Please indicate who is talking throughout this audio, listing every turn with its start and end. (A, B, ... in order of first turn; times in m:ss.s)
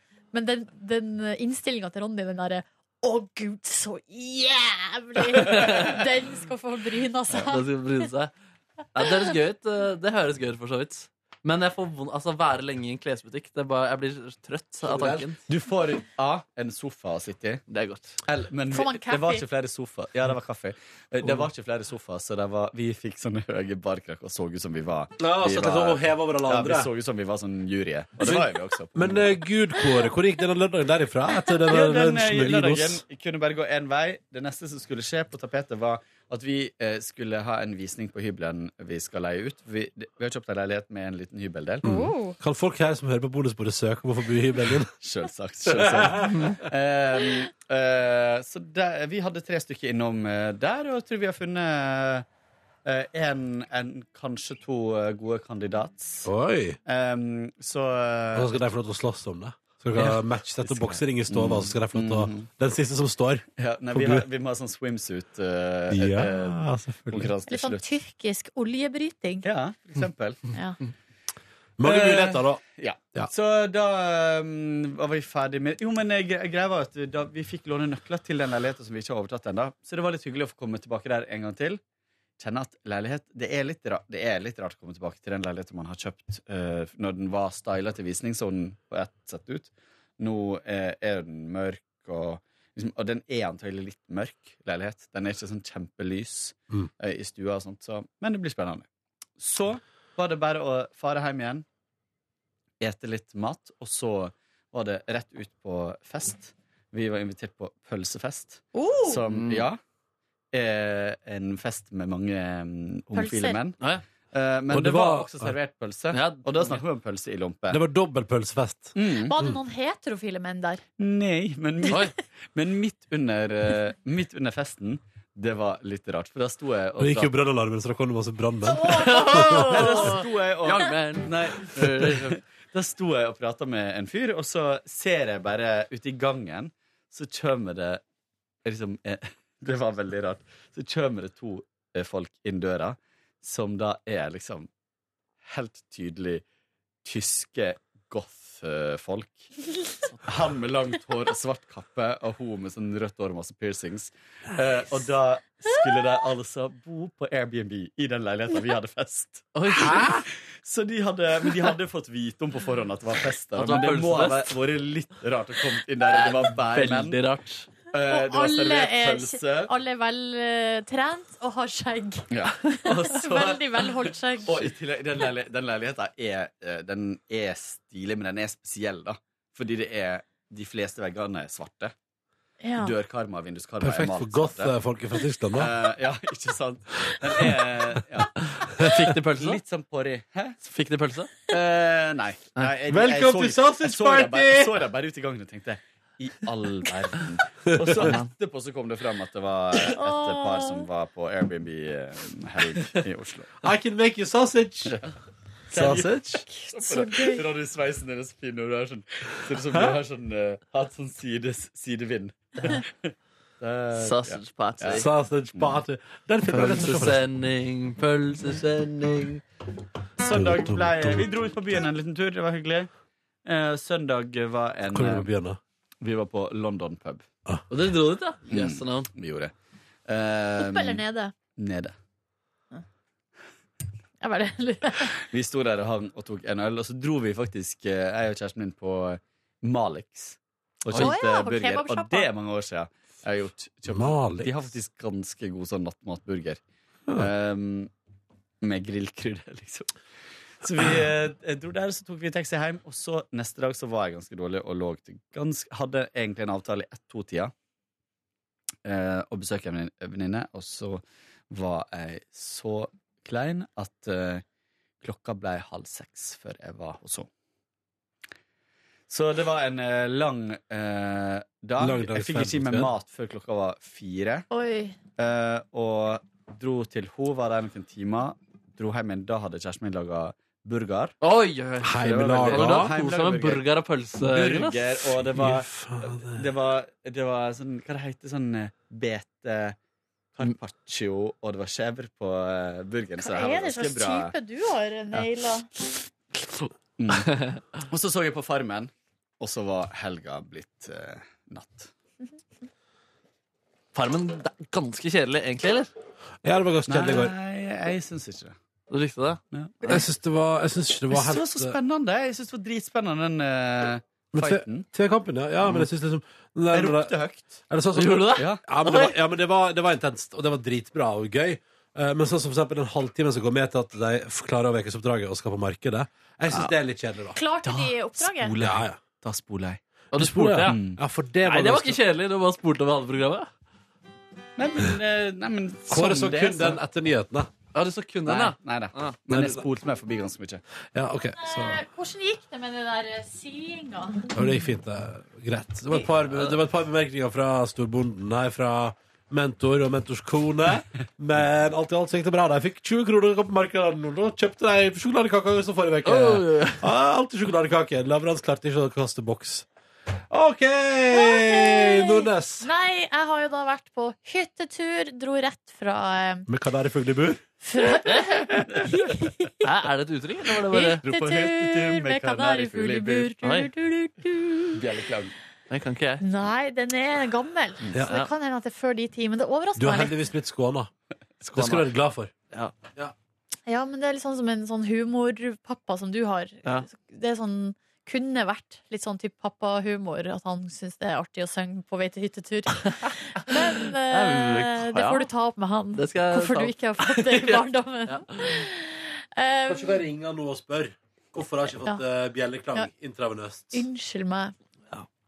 0:00.3-0:07.6 A
0:05.5-0:05.9 B
0:07.3-0:08.3 B
0:08.9-0:15.4 B
0:14.8-0:15.3 C
0:15.5-0:17.6 D
0:17.7-0:18.2 B
0:18.3-0:29.3 D
0:18.7-0:19.4 A
0:25.2-0:26.9 C
0:28.2-0:33.0 C
0:31.7-0:41.9 D
0:41.8-0:42.4 A
0:41.8-0:44.9 C
0:45.0-0:52.3 D
0:46.2-0:46.6 B
0:52.8-0:56.3 D
0:56.2-0:56.8 C
0:56.9-0:58.5 D
0:58.3-1:04.3 C
1:00.0-1:02.5 D
1:03.6-1:07.9 D
1:05.9-1:07.3 C
1:07.5-1:09.5 A
1:09.4-1:10.5 D
1:10.5-1:10.8 A
1:11.8-1:12.6 C
1:11.8-1:21.8 D
1:22.4-1:38.9 D
1:39.4-1:41.7 D
1:42.8-1:49.8 D
1:48.7-1:49.2 A
1:49.3-1:49.6 B
1:50.5-1:57.8 D
1:53.1-1:53.6 A
1:54.7-1:55.5 C
1:56.1-1:56.8 B
1:57.7-1:59.6 C
1:59.0-1:59.3 D
1:59.2-2:00.8 A
2:01.0-2:07.3 D
2:01.9-2:02.1 B
2:07.0-2:09.7 C
2:08.7-2:10.2 A
2:08.9-2:12.4 B
2:09.6-2:18.0 D
2:18.6-2:24.7 D
2:25.4-2:26.4 D
2:27.0-2:29.5 D
2:30.2-2:47.2 D
2:39.6-2:40.2 B
2:43.6-2:44.6 B
2:46.1-2:47.7 B
2:47.9-2:49.7 D
2:48.1-2:54.7 A
2:52.3-2:53.9 D
2:54.4-3:01.9 D
3:02.6-3:03.0 A
3:02.8-3:04.8 D
3:03.8-3:05.7 C
3:05.5-3:10.6 D
3:08.5-3:09.6 B
3:10.6-3:11.4 B
3:11.5-3:23.5 D
3:12.9-3:14.8 C
3:18.0-3:18.3 B
3:19.9-3:20.9 A
3:23.6-3:25.0 C
3:25.7-3:35.8 D
3:25.7-3:26.4 C
3:26.5-3:27.5 A
3:34.0-3:35.1 B
3:34.9-3:37.2 C
3:36.5-3:39.4 B
3:40.2-3:42.9 D
3:40.3-3:41.3 C
3:43.4-3:45.3 D
3:44.9-3:45.6 C
3:46.0-3:47.3 D
3:47.7-3:49.1 B
3:48.5-3:49.5 D
3:50.1-3:51.0 D
3:50.6-3:51.3 A
3:51.6-3:52.0 D
3:54.2-3:55.2 A
3:55.1-4:06.6 D
4:00.9-4:02.3 A
4:03.9-4:04.5 C
4:07.2-4:07.9 D
4:08.6-4:09.9 D
4:10.6-4:17.5 D
4:18.8-4:24.4 D
4:25.0-4:27.3 D
4:29.1-4:34.5 D
4:31.8-4:32.9 C
4:34.5-4:35.0 A
4:35.2-4:41.2 D
4:41.2-4:44.8 B
4:41.8-4:43.0 C
4:42.0-4:43.6 D
4:44.2-4:49.8 D
4:45.1-4:46.5 C
4:50.4-4:54.3 D
4:53.2-4:55.7 A
4:57.0-5:01.9 D
5:03.9-5:05.9 B
5:06.4-5:07.3 C
5:06.9-5:08.6 D
5:08.9-5:10.0 B
5:09.9-5:11.8 C
5:11.1-5:14.9 D
5:14.3-5:17.1 C
5:16.7-5:17.6 D
5:17.7-5:27.4 C
5:18.0-5:19.2 B
5:18.4-5:18.6 D
5:27.4-5:28.5 A
5:27.6-5:29.8 D
5:28.6-5:29.0 C
5:30.1-5:30.8 B
5:30.2-5:32.0 C
5:30.6-5:31.0 D
5:31.4-5:33.5 B
5:34.6-5:36.8 D
5:35.9-5:37.5 C
5:37.7-5:39.5 B
5:38.2-5:40.6 D
5:39.3-5:39.6 C
5:40.9-5:41.8 C
5:41.4-5:44.3 A
5:44.3-5:59.7 C
5:46.3-5:46.6 B
5:56.0-5:56.8 B
6:00.3-6:02.7 C
6:01.1-6:06.5 A
6:06.5-6:07.4 C
6:07.6-6:09.7 A
6:08.5-6:09.0 D
6:09.6-6:11.0 B
6:10.7-6:14.8 A
6:11.0-6:13.4 D
6:13.4-6:13.7 B
6:14.7-6:15.4 D
6:15.7-6:16.2 B
6:16.2-6:20.2 A
6:19.8-6:20.9 C
6:21.5-6:22.3 C
6:21.6-6:21.8 B
6:23.7-6:40.0 A
6:33.9-6:35.3 B
6:36.0-6:38.7 B
6:39.7-6:43.8 C
6:43.7-6:44.5 A